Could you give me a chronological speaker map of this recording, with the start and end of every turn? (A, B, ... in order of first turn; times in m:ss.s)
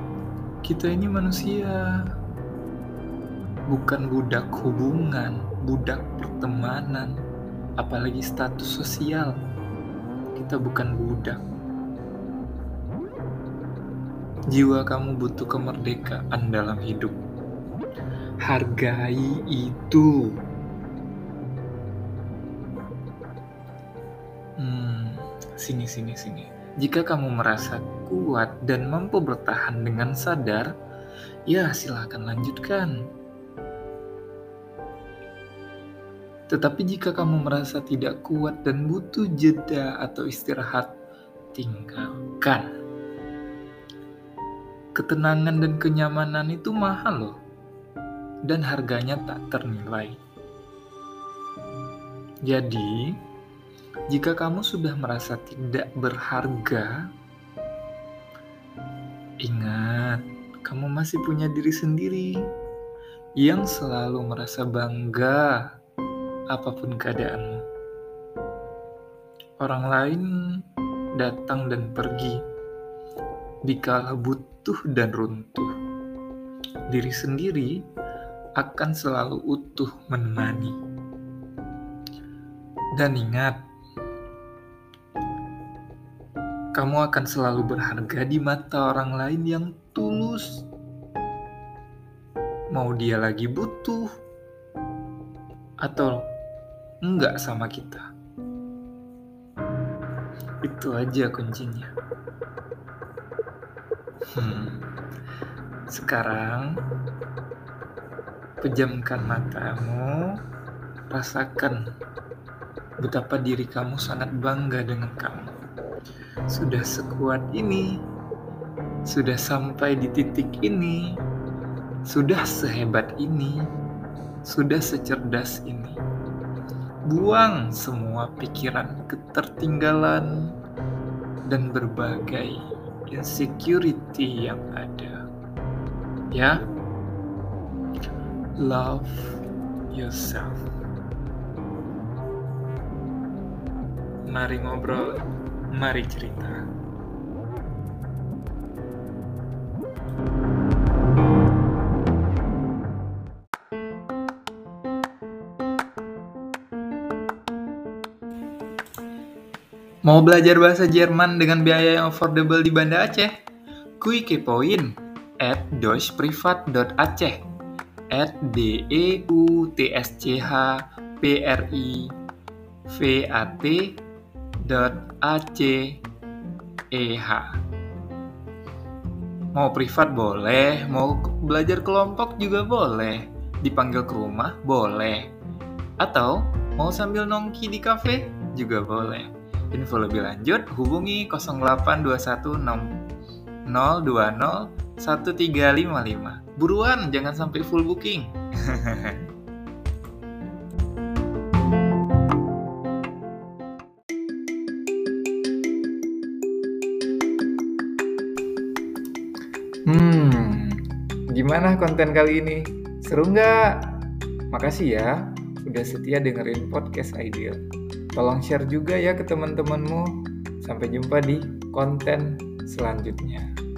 0:00.6-0:01.8 A
0:03.7-0:07.2 A
0:07.8-0:09.4 A
0:10.3-0:11.4 A
0:14.5-0:17.2 A
0:18.4-0:20.4 A
0:24.6-0:30.7 A
0:31.5-0:33.0 A
0:36.5-0:40.9 A
0:41.5-0:42.7 A
0:45.0-0:47.4 A
0:48.5-0:50.2 A
0:52.4-0:53.2 A
0:54.1-0:57.0 A
0:59.4-1:02.4 A
1:03.4-1:05.6 A
1:06.5-1:07.6 A
1:09.6-1:10.3 A
1:11.2-1:12.4 A
1:13.7-1:15.7 A
1:16.9-1:17.8 A
1:18.6-1:20.8 A
1:23.0-1:23.6 A
1:26.7-1:30.6 A
1:32.7-1:34.1 A
1:35.8-1:36.2 A
1:37.1-1:38.1 A
1:40.6-1:41.9 A
1:44.3-1:44.9 A
1:45.9-1:46.7 A
1:48.6-1:50.4 A
1:51.1-1:51.8 A
1:53.0-1:55.5 A
1:56.5-1:58.0 A
1:59.1-2:01.2 A
2:02.1-2:03.6 A
2:04.5-2:06.0 A
2:07.1-2:10.5 A
2:11.5-2:15.2 A
2:16.3-2:16.6 A
2:18.6-2:20.7 A
2:24.3-2:26.6 A
2:40.0-2:43.3 A
2:44.0-2:47.4 A
2:48.1-2:52.1 A
2:52.9-2:54.0 A
2:54.6-2:56.0 A
2:56.9-2:57.6 A
2:59.5-3:05.3 A
3:06.0-3:13.0 A
3:13.7-3:19.3 A
3:29.9-3:37.6 A
3:38.2-3:43.5 A